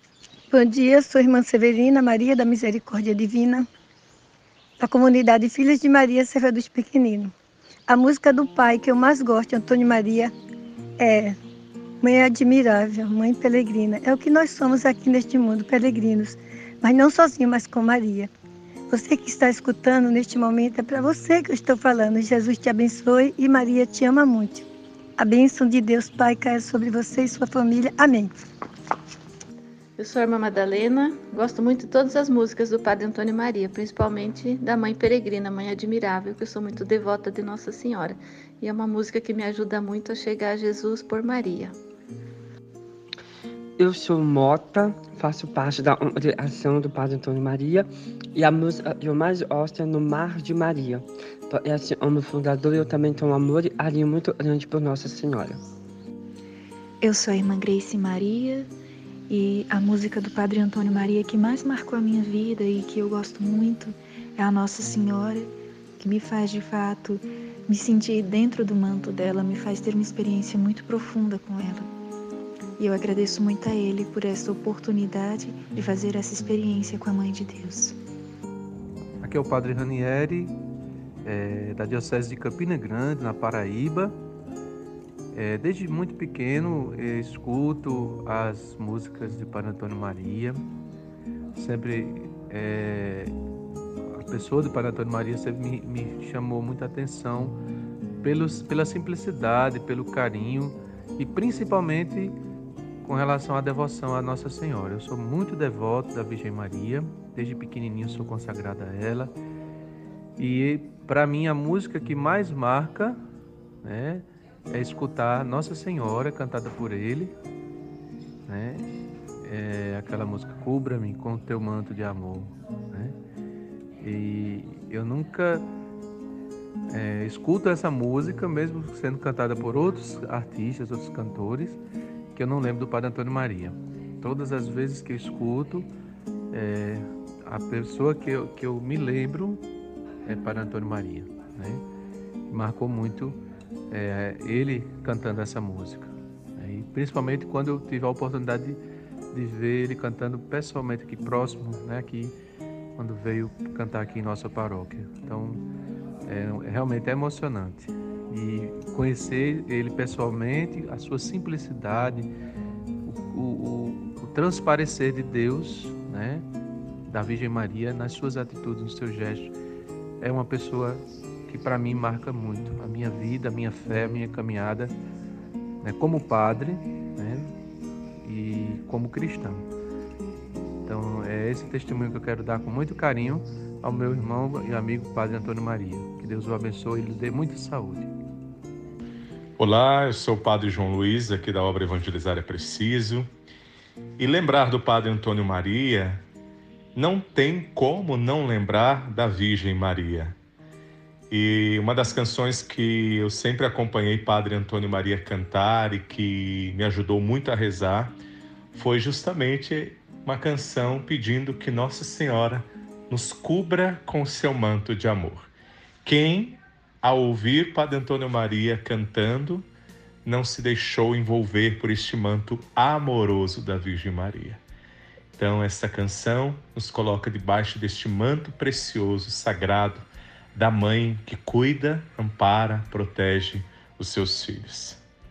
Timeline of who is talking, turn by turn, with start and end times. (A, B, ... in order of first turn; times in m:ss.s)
0:00.5-0:03.6 A
0:04.8-0:07.3 A
0:07.9-0:10.3 A
0:11.0-0:11.4 A
0:12.0-0:18.3 A
0:18.9-0:24.7 A
0:25.2-0:28.3 A
0:30.0-0:41.8 B
0:43.8-0:47.8 C
0:48.4-0:55.6 C
0:57.0-0:58.7 D
0:59.3-1:11.9 D
1:12.8-1:17.9 D
1:19.2-1:20.2 E
1:19.3-1:20.5 F
1:21.3-1:24.1 F
1:21.6-1:22.2 E
1:25.4-1:30.6 F
1:31.6-1:33.3 F
1:34.3-1:37.5 F
1:38.2-1:42.3 F
1:43.0-1:49.3 F
1:50.4-1:53.1 F
1:53.8-1:54.2 F
1:54.8-1:57.3 F
1:58.5-1:58.8 F
1:59.4-2:03.1 F
2:04.1-2:05.6 F
2:07.0-2:11.8 F
2:12.4-2:15.8 F
2:16.5-2:19.6 F
2:20.3-2:20.8 E
2:20.4-2:21.8 F
2:22.5-2:23.4 F
2:23.9-2:28.8 F
2:29.3-2:32.3 F
2:33.0-2:35.6 F
2:36.3-2:42.2 F
2:43.2-2:46.4 F
2:47.1-2:49.5 F
2:50.2-2:51.0 F
2:51.5-2:54.9 F
2:53.5-2:54.7 E
2:55.8-2:57.4 F
2:58.3-2:59.6 F
3:00.9-3:08.1 F
3:05.4-3:08.1 E
3:09.6-3:13.2 E
3:14.2-3:16.2 E
3:17.0-3:20.3 E
3:21.3-3:28.1 E
3:28.7-3:35.5 E
3:36.0-3:39.6 E
3:40.2-3:44.6 E
3:45.4-3:50.0 E
3:50.6-3:55.0 E